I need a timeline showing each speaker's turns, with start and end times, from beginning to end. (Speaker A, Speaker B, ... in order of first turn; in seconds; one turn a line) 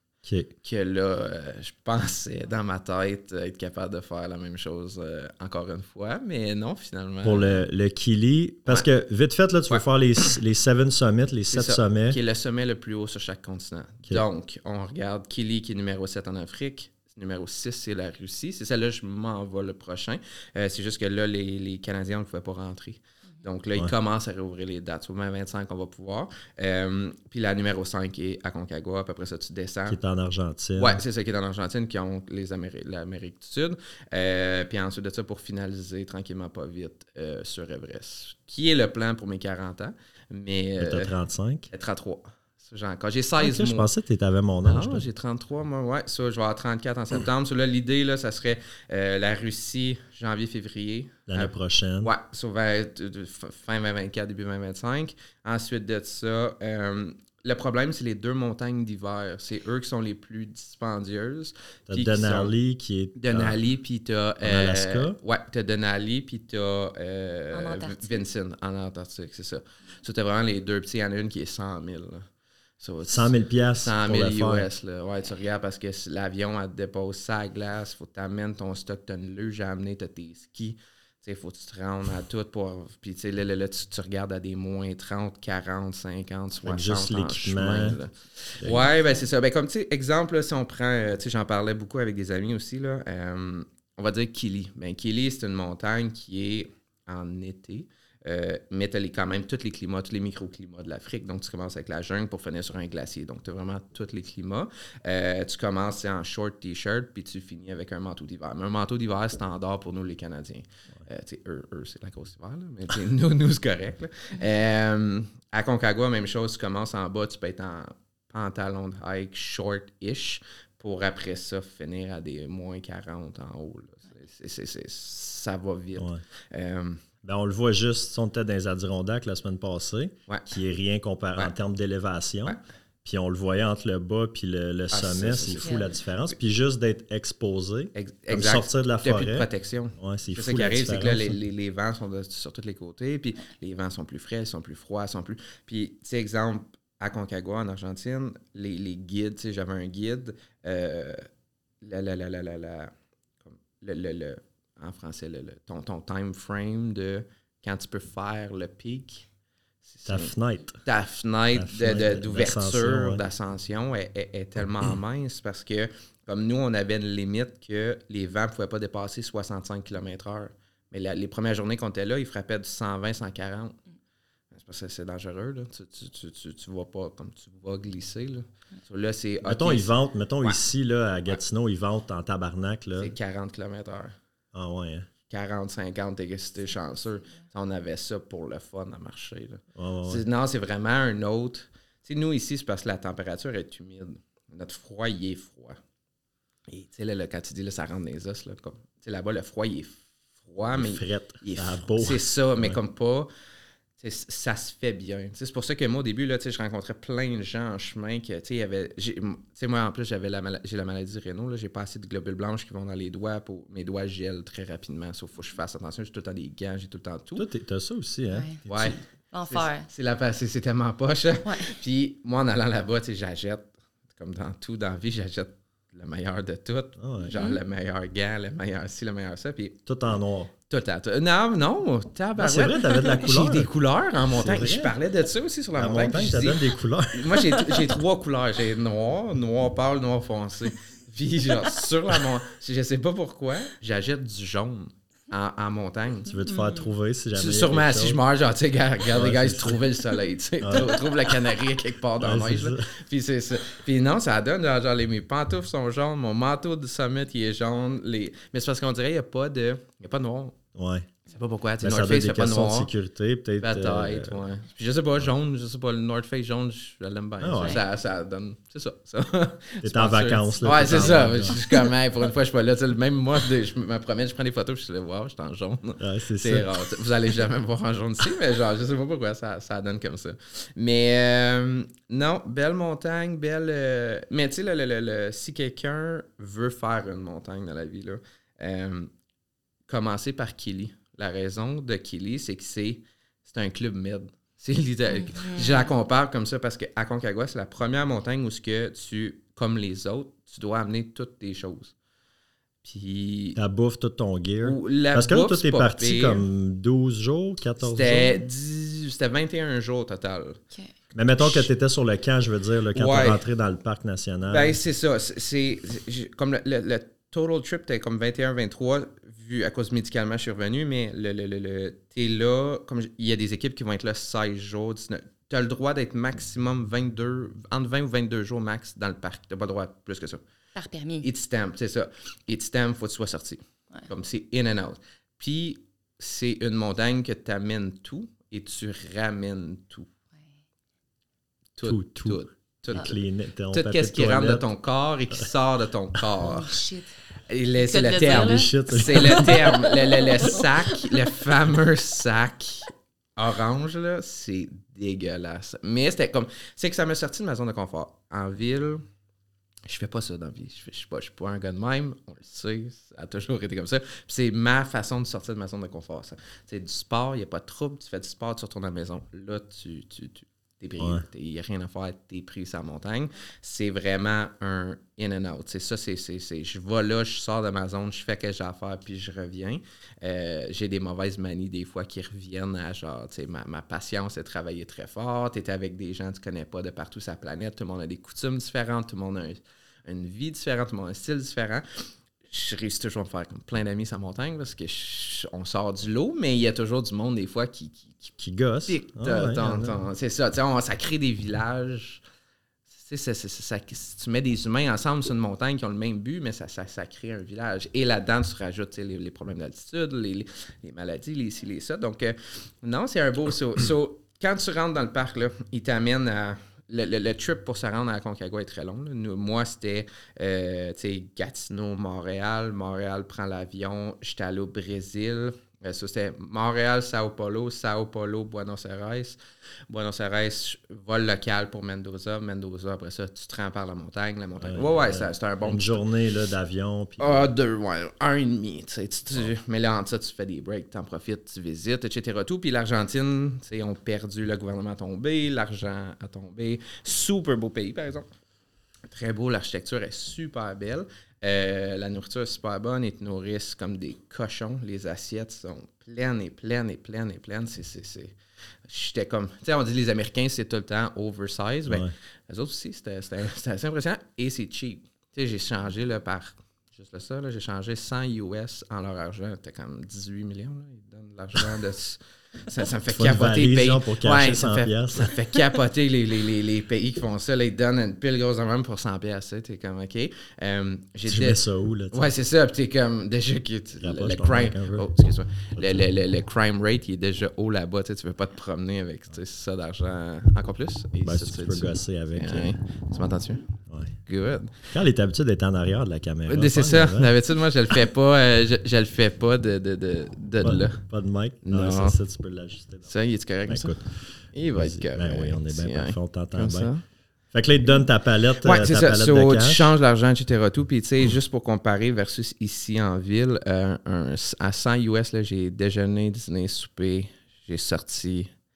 Speaker A: 0.2-0.5
Speaker B: 0.6-7.6
Speaker A: 7.2-12.2
Speaker B: 11.5-30.0
Speaker A: 29.9-31.0
Speaker B: 30.8-41.1
Speaker A: 40.8-41.7
Speaker B: 41.7-43.9
Speaker A: 43.4-45.0
Speaker B: 44.6-62.5
Speaker A: 51.3-52.1
Speaker A: 61.9-63.6
Speaker B: 63.2-72.2
Speaker A: 64.4-65.2
Speaker C: 67.5-68.2
Speaker B: 72.8-127.0
Speaker A: 73.0-74.7
Speaker A: 86.6-88.0
Speaker A: 126.0-126.2
Speaker A: 127.2-141.4
Speaker B: 134.9-135.7
Speaker C: 135.6-135.9
Speaker B: 137.9-151.3
Speaker B: 151.8-152.9
Speaker B: 153.4-159.3
Speaker B: 159.8-160.3
Speaker A: 160.1-160.8
Speaker B: 160.8-173.8
Speaker A: 161.5-163.2
Speaker B: 174.5-179.9
Speaker A: 179.4-183.1
Speaker B: 183.0-184.2
Speaker A: 184.5-185.1
Speaker B: 185.3-195.8
Speaker A: 189.8-190.2
Speaker B: 196.7-203.3
Speaker A: 200.7-202.8
Speaker B: 204.0-217.4
Speaker A: 217.3-218.9
Speaker C: 218.3-218.6
Speaker B: 218.7-229.8
Speaker C: 219.3-219.9
Speaker C: 221.4-221.7
Speaker A: 227.0-227.3
Speaker C: 227.3-227.6
Speaker A: 229.8-230.5
Speaker B: 230.7-246.4
Speaker A: 232.4-233.7
Speaker A: 234.3-234.9
Speaker A: 235.8-237.7
Speaker A: 246.2-248.2
Speaker B: 247.3-260.6
Speaker A: 249.1-249.8
Speaker A: 250.6-250.9
Speaker A: 252.2-252.9
Speaker A: 260.7-261.1
Speaker B: 261.3-262.9
Speaker A: 261.8-264.4
Speaker B: 263.6-289.1
Speaker A: 267.4-267.8
Speaker A: 269.8-271.6
Speaker A: 276.0-276.7
Speaker B: 289.9-301.9
Speaker C: 295.2-295.8
Speaker B: 302.8-303.6
Speaker A: 303.5-308.4
Speaker B: 304.6-306.4
Speaker B: 307.8-310.6
Speaker A: 311.1-314.8
Speaker B: 311.4-311.7
Speaker B: 312.9-313.4
Speaker B: 314.5-330.4
Speaker C: 330.8-331.3
Speaker B: 331.2-340.1
Speaker B: 341.8-343.1
Speaker A: 341.8-344.6
Speaker B: 343.7-346.8
Speaker C: 346.4-347.1
Speaker B: 347.5-359.0
Speaker C: 347.8-351.2
Speaker A: 348.2-349.7
Speaker B: 359.9-391.9
Speaker A: 371.0-371.2
Speaker B: 392.5-398.3
Speaker A: 398.4-399.9
Speaker B: 398.9-402.2
Speaker B: 402.9-429.4
Speaker B: 429.9-436.0
Speaker A: 434.6-437.5
Speaker B: 437.2-448.3
Speaker B: 449.1-458.3
Speaker B: 458.9-481.6
Speaker A: 461.9-462.1
Speaker A: 473.1-475.3
Speaker A: 481.2-482.3
Speaker B: 482.1-493.7
Speaker A: 484.0-485.1
Speaker A: 485.8-486.0
Speaker A: 491.2-492.8
Speaker B: 494.3-494.7
Speaker A: 494.9-497.3
Speaker B: 496.5-501.0
Speaker A: 500.6-503.1
Speaker B: 501.6-502.1
Speaker B: 503.1-507.0
Speaker A: 503.6-504.0
Speaker A: 504.7-506.9
Speaker A: 507.5-509.9
Speaker B: 508.6-518.5